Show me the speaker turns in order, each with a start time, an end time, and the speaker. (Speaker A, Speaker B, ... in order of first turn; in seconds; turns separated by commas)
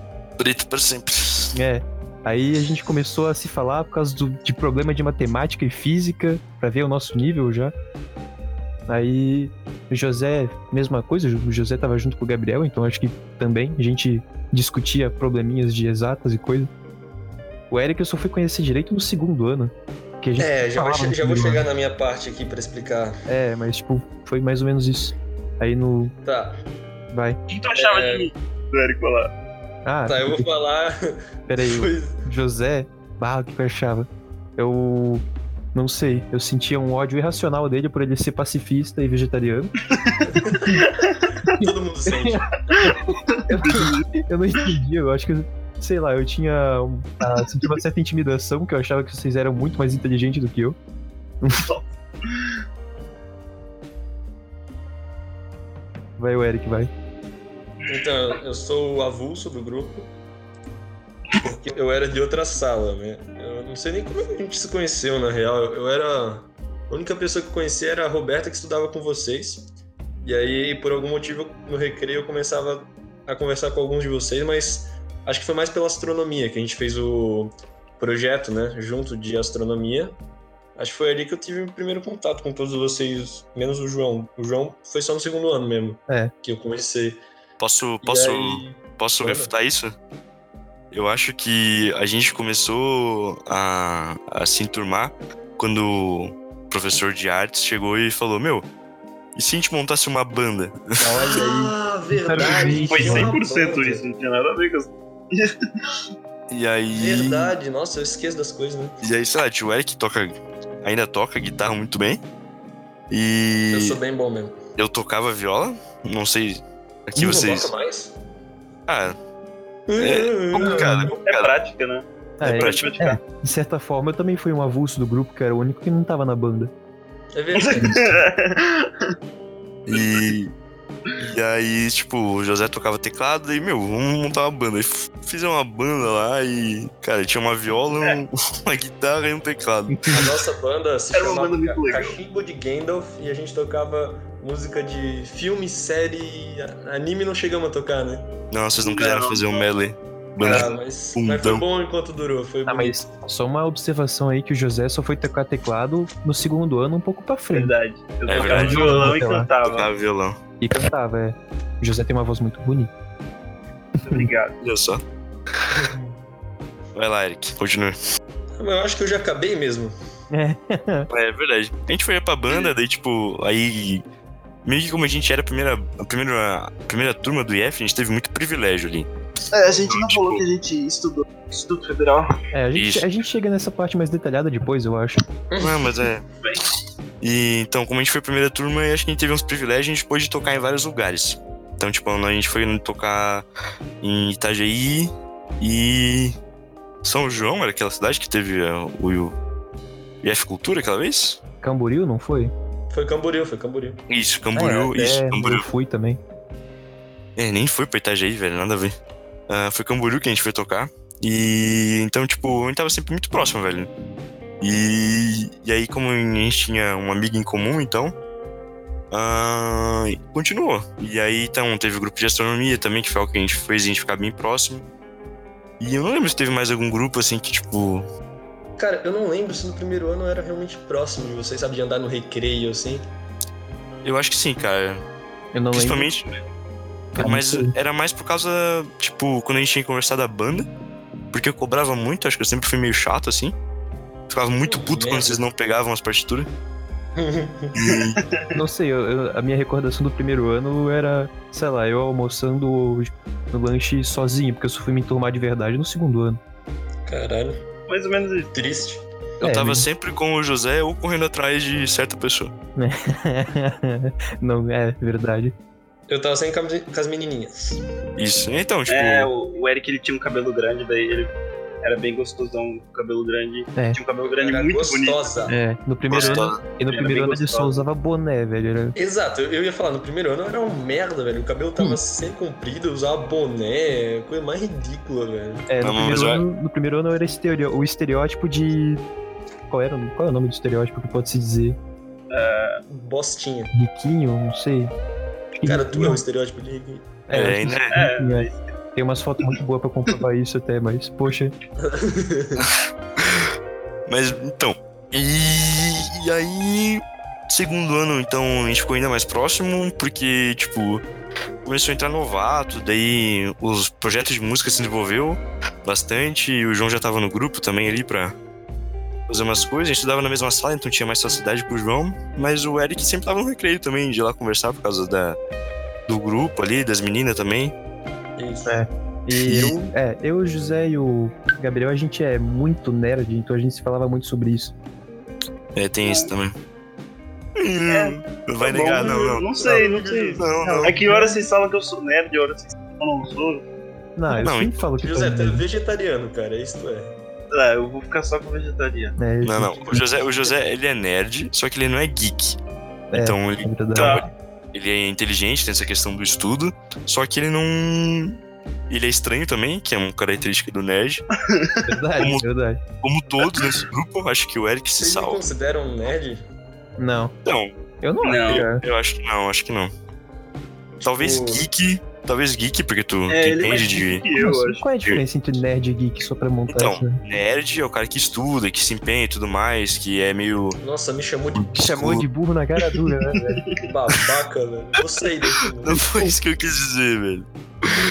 Speaker A: 0.4-1.5, Speaker B: 1.5-7.7, Speaker B: 8.9-16.7, Speaker B: 17.7-21.6, Speaker C: 20.4-23.2, Speaker B: 23.3-26.1, Speaker C: 26.2-26.6, Speaker B: 27.1-27.4, Speaker D: 27.5-29.3, Speaker C: 27.7-28.3, Speaker B: 29.8-30.4, Speaker C: 30.1-32.2, Speaker B: 31.5-39.7, Speaker C: 40.3-40.8, Speaker B: 40.3-40.9, Speaker C: 41.4-42.7, Speaker B: 41.6-50.8, Speaker D: 42.7-44.1, Speaker D: 51.5-52.5, Speaker B: 56.2-56.9, Speaker D: 57.8-58.1, Speaker C: 57.9-60.1, Speaker C: 61.4-69.7, Speaker C: 70.2-80.2, Speaker C: 80.8-87.2, Speaker A: 87.6-89.9, Speaker C: 88.0-89.5, Speaker A: 90.9-98.7, Speaker A: 99.3-100.9, Speaker B: 101.0-103.4, Speaker C: 101.2-104.0, Speaker D: 102.4-105.9, Speaker A: 106.5-107.5, Speaker C: 106.9-109.0, Speaker A: 109.0-112.2, Speaker A: 113.1-114.0, Speaker C: 113.7-114.6, Speaker A: 114.8-117.7, Speaker C: 117.2-118.2, Speaker A: 118.9-119.2, Speaker C: 119.9-121.1, Speaker A: 120.0-121.5, Speaker B: 120.8-121.1, Speaker D: 121.2-123.2, Speaker B: 122.4-126.7, Speaker A: 122.4-123.0, Speaker C: 127.3-128.1, Speaker D: 127.6-129.1, Speaker B: 127.8-128.1, Speaker A: 129.9-130.5, Speaker D: 129.9-130.2, Speaker A: 131.2-140.1, Speaker B: 139.9-140.3, Speaker C: 140.1-148.3, Speaker D: 141.1-142.2, Speaker A: 148.5-151.6, Speaker D: 148.8-149.5, Speaker C: 150.4-153.0, Speaker B: 152.7-157.7, Speaker D: 157.5-159.9, Speaker A: 158.3-158.9, Speaker C: 158.4-159.0, Speaker B: 158.4-159.5, Speaker A: 159.6-160.4, Speaker B: 160.6-162.9, Speaker D: 164.0-164.6, Speaker A: 164.6-165.0, Speaker C: 165.7-166.2, Speaker A: 166.9-167.9, Speaker C: 168.6-169.9, Speaker B: 170.3-171.1, Speaker A: 171.1-174.0, Speaker A: 174.6-179.1, Speaker D: 179.5-182.4, Speaker A: 179.6-180.4, Speaker B: 182.5-185.2, Speaker A: 182.7-183.1, Speaker C: 185.5-185.9, Speaker A: 185.6-186.2, Speaker A: 187.2-193.4, Speaker A: 194.0-196.3, Speaker A: 197.0-199.3, Speaker A: 200.2-201.4, Speaker B: 201.6-202.5, Speaker C: 202.9-204.0, Speaker A: 204.1-205.7, Speaker B: 204.5-206.2, Speaker A: 207.4-208.9, Speaker A: 209.5-213.9, Speaker A: 214.6-218.1, Speaker A: 219.1-224.8, Speaker A: 225.8-228.1, Speaker C: 228.8-233.1, Speaker A: 234.0-235.0, Speaker B: 235.5-236.1, Speaker A: 235.7-236.3, Speaker A: 237.1-240.7, Speaker B: 237.2-237.7, Speaker A: 241.3-243.5, Speaker A: 244.3-246.5, Speaker C: 244.6-245.4, Speaker C: 247.2-247.8, Speaker A: 247.7-248.2, Speaker D: 248.2-248.5, Speaker B: 248.5-256.4, Speaker C: 257.1-257.6, Speaker D: 257.9-258.5, Speaker C: 258.5-259.1, Speaker B: 259.4-259.9, Speaker A: 259.4-262.5, Speaker B: 262.8-265.5, Speaker C: 266.1-267.8, Speaker A: 268.2-269.3, Speaker D: 268.9-275.2, Speaker C: 274.2-275.6, Speaker B: 275.5-278.9, Speaker A: 276.1-276.6, Speaker D: 276.1-277.8, Speaker C: 278.9-285.7, Speaker B: 285.7-289.0, Speaker A: 285.8-286.4, Speaker B: 289.7-291.8, Speaker D: 292.3-292.8, Speaker C: 292.9-293.7, Speaker B: 293.7-294.9, Speaker B: 295.5-296.2, Speaker C: 295.6-297.1, Speaker B: 297.3-301.5, Speaker A: 297.3-297.9, Speaker D: 297.9-298.6, Speaker C: 301.8-302.7, Speaker A: 302.6-303.5, Speaker A: 304.1-311.0, Speaker A: 311.6-318.3, Speaker A: 319.3-325.4, Speaker A: 326.1-327.7, Speaker C: 328.4-328.8, Speaker B: 328.6-334.7, Speaker A: 329.3-329.7, Speaker A: 335.8-336.5, Speaker D: 336.0-336.3, Speaker A: 337.6-341.0, Speaker D: 337.9-343.6, Speaker C: 339.6-340.4, Speaker B: 340.6-341.4, Speaker B: 344.2-345.6, Speaker A: 344.3-344.8, Speaker C: 345.0-347.1, Speaker D: 347.5-349.1, Speaker B: 349.2-350.0, Speaker A: 349.4-352.6, Speaker C: 349.8-350.4, Speaker B: 353.1-354.2, Speaker A: 353.1-361.2, Speaker D: 353.9-354.3, Speaker D: 361.5-361.8, Speaker B: 361.8-362.8, Speaker A: 362.2-362.4, Speaker A: 363.0-365.4, Speaker C: 365.0-366.4, Speaker B: 367.0-367.3, Speaker A: 367.4-367.7, Speaker B: 368.0-368.8, Speaker D: 368.2-368.6, Speaker A: 368.5-369.9, Speaker A: 371.0-374.2, Speaker C: 371.1-371.6, Speaker D: 373.3-374.8, Speaker B: 374.4-377.2, Speaker A: 376.7-380.8, Speaker C: 380.8-381.8, Speaker A: 381.5-382.2, Speaker B: 381.7-383.6, Speaker D: 383.5-383.8, Speaker C: 383.8-386.1, Speaker A: 385.8-387.5